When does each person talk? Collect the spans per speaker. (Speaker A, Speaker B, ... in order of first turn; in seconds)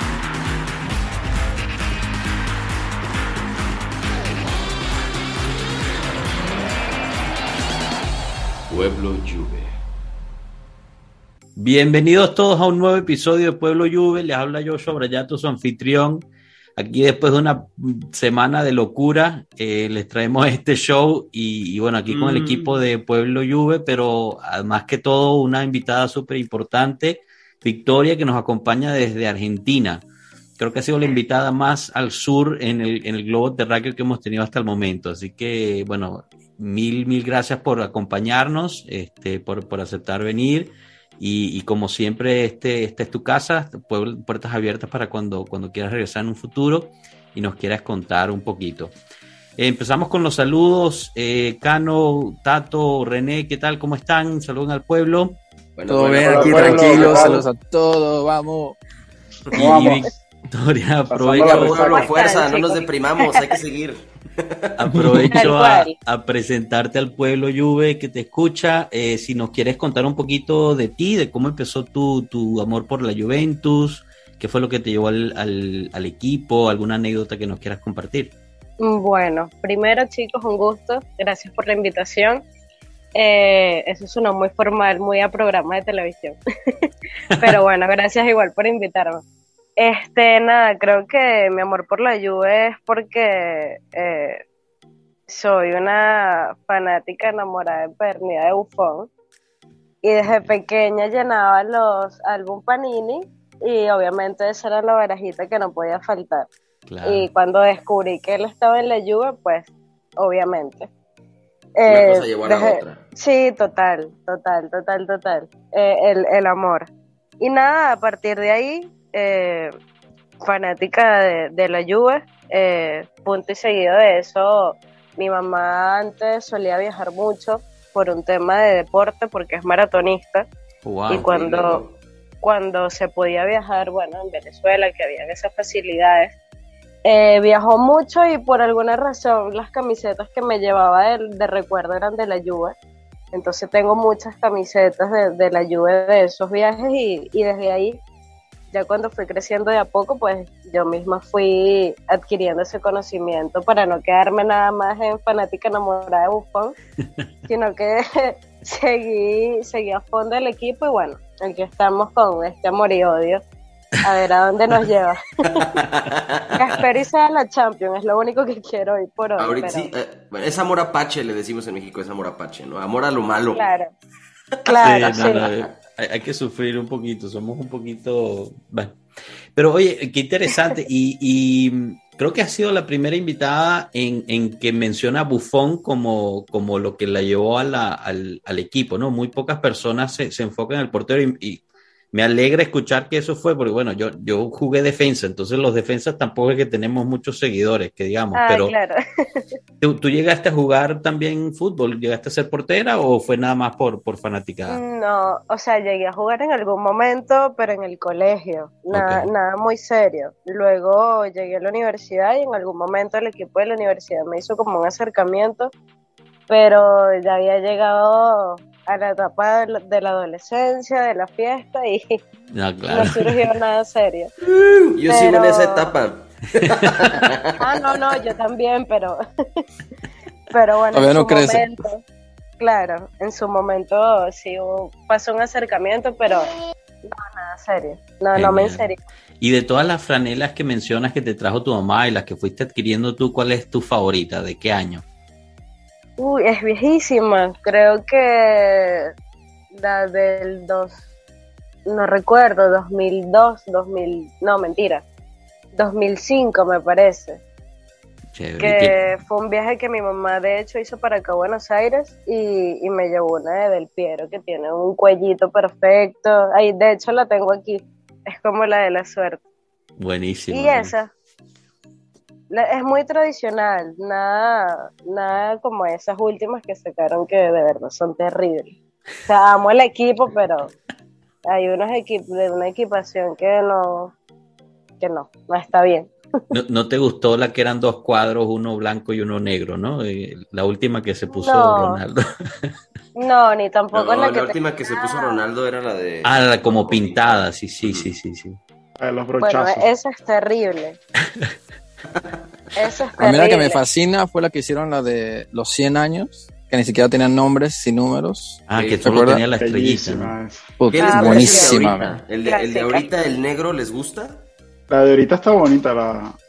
Speaker A: 8.7-9.8, 22.1-22.8, 55.8-57.5, 61.4-64.8, 111.9-113.0, 131.1-132.0, 165.6-166.6, 169.4-173.7, 224.4-227.8, 293.9-298.1, 308.7-309.2, 310.9-314.5
Speaker B: 11.6-30.1, 30.6-48.9, 49.6-55.4, 59.5-62.0, 64.8-78.3, 100.2-100.5, 106.9-107.3, 130.8-131.3, 174.8-179.0, 179.6-198.8, 199.8-204.8, 208.9-209.3, 222.5-223.4, 238.3-238.9, 239.4-245.0, 258.3-259.2, 270.0-271.0, 286.5-292.8, 296.2-298.6, 308.7-310.4
Speaker C: 55.9-58.8, 65.0-65.3, 230.9-231.7, 303.2-309.4, 310.8-312.2
Speaker D: 56.2-57.5, 59.5-60.1, 61.1-62.1, 299.0-299.9, 309.6-310.7, 314.9-316.4
Speaker E: 61.9-63.5, 65.3-66.0, 78.8-82.5, 83.2-89.2, 89.8-94.4, 95.3-99.1, 100.0-106.5, 107.0-110.9, 111.8-119.8, 120.4-130.5, 131.1-131.8, 132.4-136.4, 137.1-142.8, 143.3-148.0, 148.7-156.8, 157.5-163.4, 164.0-165.8, 166.5-169.9, 173.5-173.9, 174.7-175.5, 198.3-199.5, 204.7-215.7, 216.5-222.2, 222.9-224.3, 225.1-225.9, 227.6-229.7, 230.5-232.0, 232.6-236.5, 237.1-239.0, 246.2-249.1, 249.7-250.9, 251.9-255.1, 255.8-257.4, 258.6-269.4, 270.5-271.1, 272.5-280.7, 281.5-284.1, 285.0-286.5, 291.3-292.0, 293.2-295.4, 299.4-301.0, 302.8-303.8, 310.9-311.9, 312.4-313.1